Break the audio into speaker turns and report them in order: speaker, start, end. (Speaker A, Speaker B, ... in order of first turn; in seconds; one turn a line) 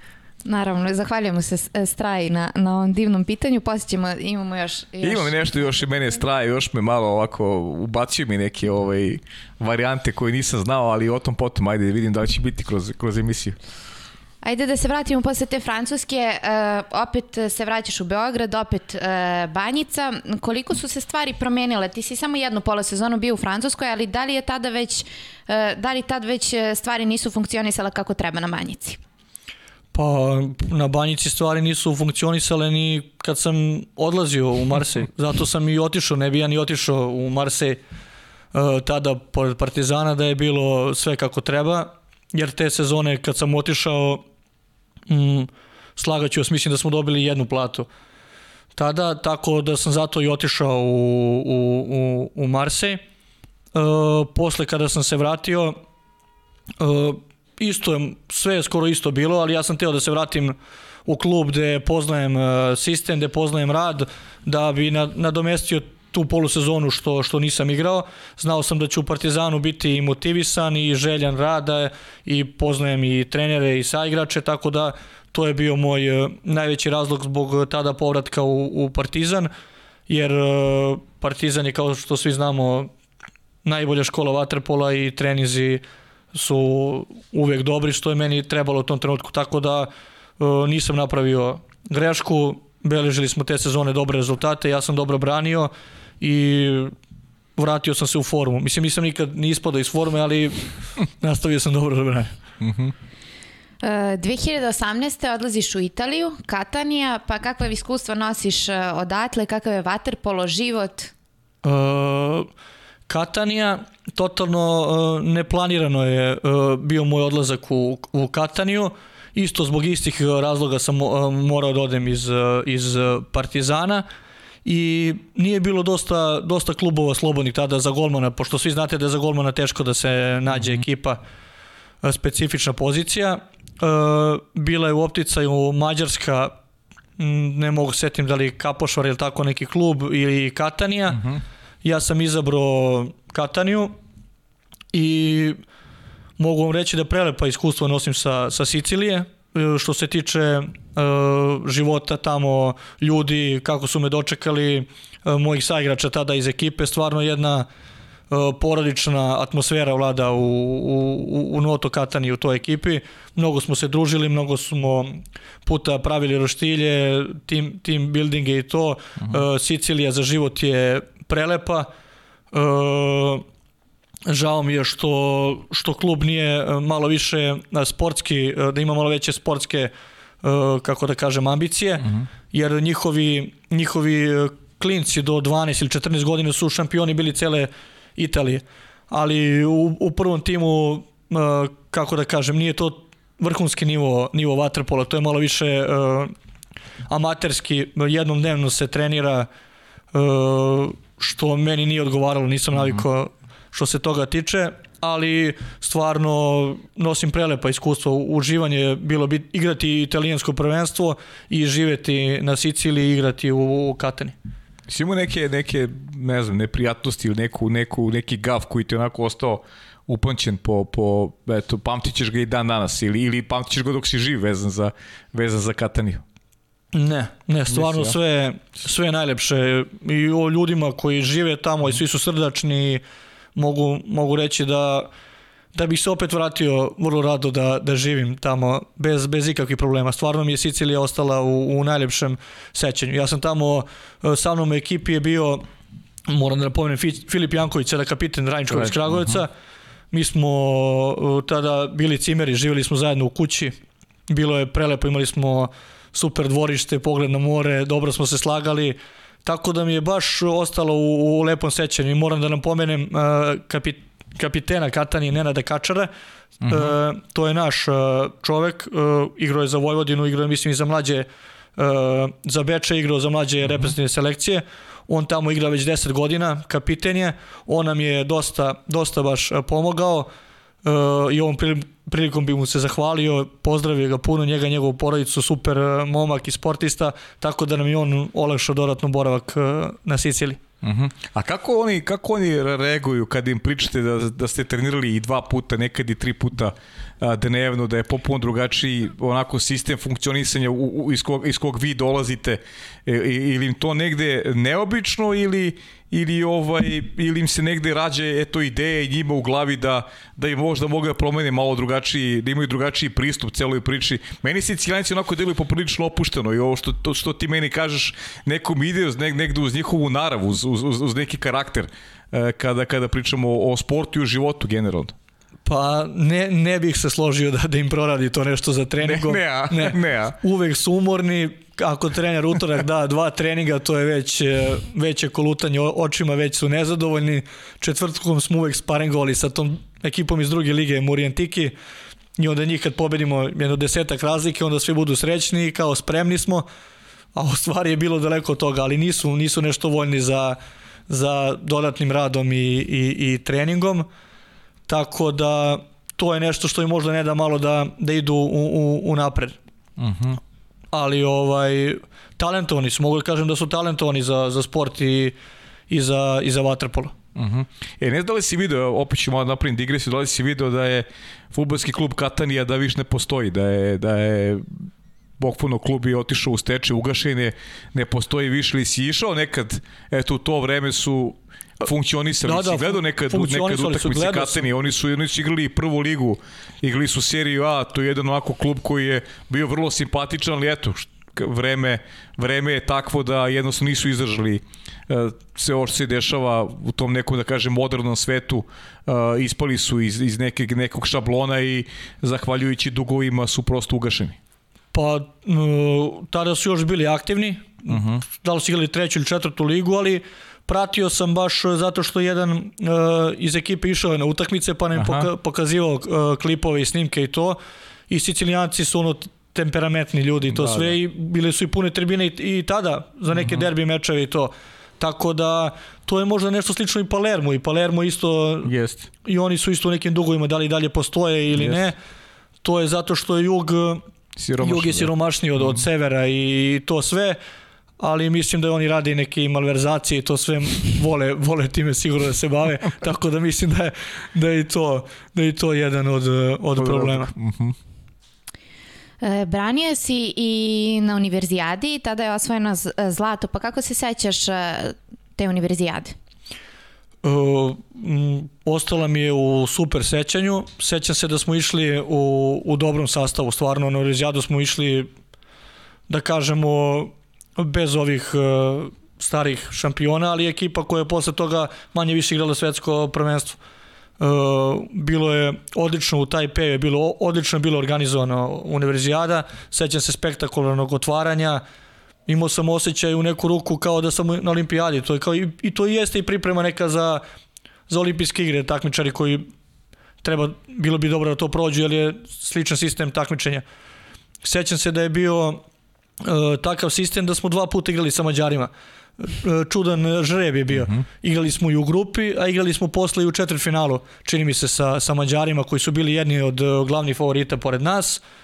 Speaker A: 0.4-5.5
Speaker B: 5.0-13.6
Speaker A: 14.4-29.0
Speaker C: 29.9-37.8
Speaker C: 38.5-44.2
Speaker C: 45.1-47.9
Speaker C: 48.8-53.0
Speaker C: 53.7-55.8
Speaker C: 56.8-79.5
Speaker C: 80.1-82.9
Speaker C: 83.6-85.8
Speaker C: 86.3-96.9
Speaker C: 97.6-100.7
Speaker C: 101.2-102.3
Speaker B: 102.6-102.9
Speaker A: 103.8-111.1
Speaker C: 111.6-112.5
Speaker C: 113.1-124.0
Speaker C: 124.6-131.2
Speaker B: 130.6-130.8
Speaker C: 132.0-136.5
Speaker C: 137.2-141.2
Speaker B: 141.1-141.4
Speaker C: 141.8-143.9
Speaker C: 144.9-145.6
Speaker C: 146.4-157.7
Speaker C: 158.3-171.9
Speaker C: 172.5-173.4
Speaker C: 174.2-179.9
Speaker C: 180.4-196.3
Speaker C: 197.1-199.5
Speaker C: 200.1-214.3
Speaker B: 214.9-226.2
Speaker C: 226.9-233.0
Speaker B: 227.7-228.2
Speaker C: 233.6-235.1
Speaker C: 235.7-245.6
Speaker C: 246.3-249.5
Speaker B: 248.7-249.4
Speaker C: 250.1-253.8
Speaker C: 254.3-266.1
Speaker B: 266.6-266.9
Speaker C: 266.7-280.3
Speaker C: 280.8-290.6
Speaker B: 290.8-325.1
Speaker C: 325.6-341.7
Speaker B: 329.0-330.4
Speaker C: 342.4-346.7
Speaker C: 347.3-350.6
Speaker C: 351.1-354.1
Speaker C: 354.9-359.6
Speaker B: 360.0-360.4
Speaker C: 360.9-365.3
Speaker C: 365.9-367.1
Speaker B: 367.3-374.9
Speaker B: 375.4-404.4
Speaker C: 382.4-384.7
Speaker C: 404.9-417.6
Speaker B: 407.9-408.2
Speaker B: 414.9-415.3
Speaker C: 418.1-428.7
Speaker B: 420.5-420.9
Speaker B: 423.3-423.6
Speaker B: 428.6-429.1
Speaker C: 429.2-431.9
Speaker B: 431.6-431.8
Speaker C: 432.6-434.0
Speaker B: 434.4-435.8
Speaker C: 434.6-437.4
Speaker C: 438.0-447.3
Speaker B: 446.8-447.8
Speaker A: 449.2-456.1
Speaker C: 457.2-465.1
Speaker C: 466.1-473.6
Speaker C: 474.2-481.6
Speaker C: 482.3-487.2
Speaker C: 487.9-489.5
Speaker C: 490.2-493.6
Speaker C: 494.4-495.6
Speaker C: 496.2-508.2
Speaker B: 500.7-501.0